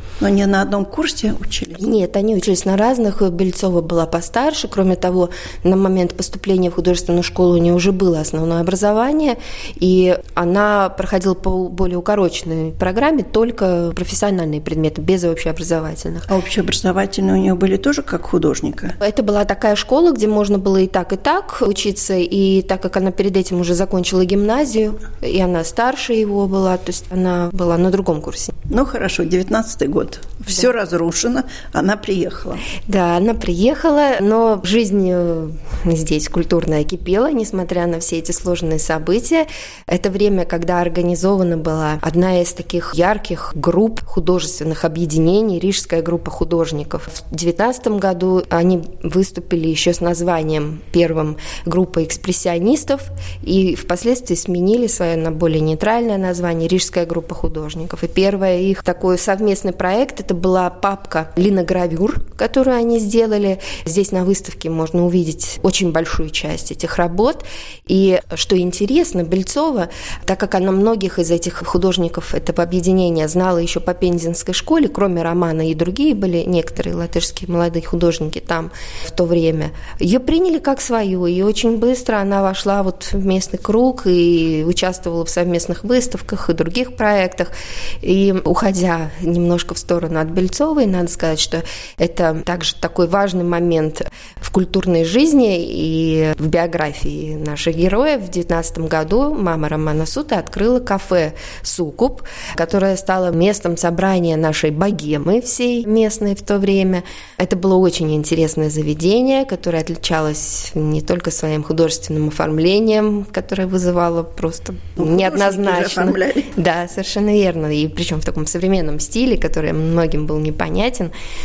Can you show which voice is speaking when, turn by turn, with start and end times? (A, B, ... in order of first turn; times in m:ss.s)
0:00.2-0:01.8 A
0:01.8-0:16.3 B
0:16.3-0:19.0 A
0:19.0-0:28.5 B
0:28.7-0:32.6 A
0:32.8-2:01.1 B
1:55.0-1:56.5 A